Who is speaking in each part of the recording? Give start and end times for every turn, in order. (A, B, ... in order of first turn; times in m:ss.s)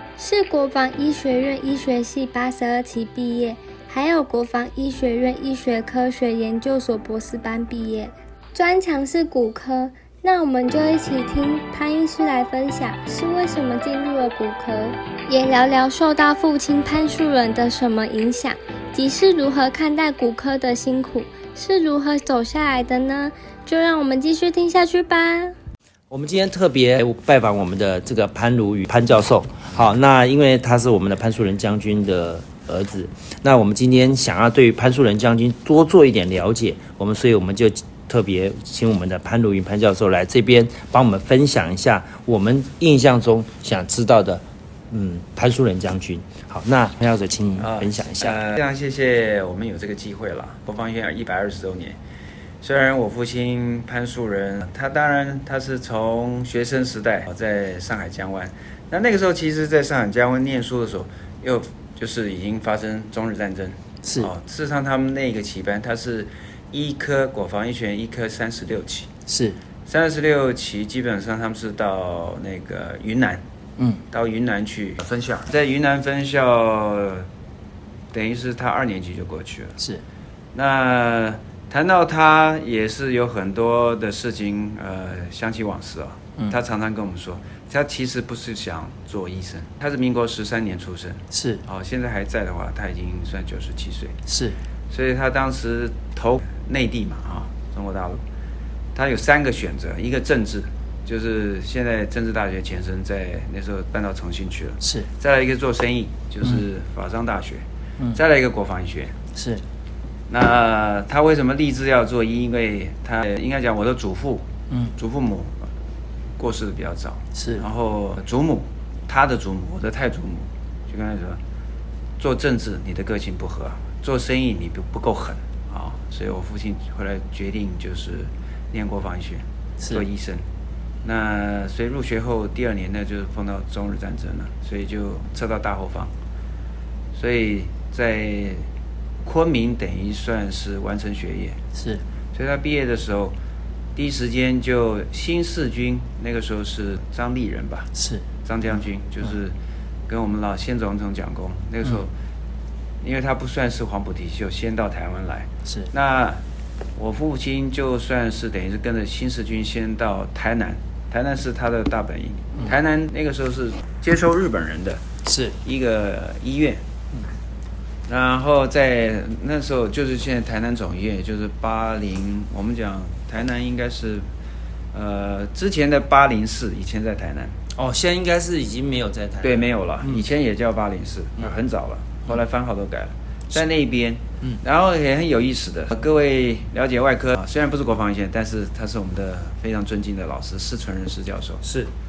0:00.2-0:25.5 A
0:26.1-0:48.4 B
0:47.6-0:52.0 C
0:52.6-1:09.1 C
1:04.0-1:04.3 B
1:09.3-1:09.6 B
1:09.8-1:13.4 C
1:14.1-1:17.3 C
1:18.1-1:19.8 C
1:20.5-1:34.1 C
1:31.3-1:31.6 B
1:34.3-1:34.6 B
1:34.9-1:38.2 C
1:38.9-1:49.1 C
1:44.8-1:45.1 B
1:49.3-1:49.6 B
1:50.3-1:55.6 C
1:56.4-2:01.4 C
1:57.3-1:57.6 B
2:02.2-2:10.4 C
2:11.0-2:16.1 C
2:17.2-2:18.6 C
2:19.2-2:21.6 C
2:21.7-2:22.0 B
2:22.3-2:23.3 C
2:24.0-2:27.9 C
2:27.9-2:28.2 B
2:28.4-2:29.5 C
2:30.1-2:32.1 C
2:33.0-2:36.4 C
2:35.6-2:35.9 B
2:37.0-2:45.0 C
2:45.2-2:45.6 B
2:45.6-2:46.8 C
2:48.1-2:54.2 C
2:54.9-2:57.5 C
2:57.7-3:00.2 B
2:59.4-3:11.6 C
3:11.6-3:11.9 B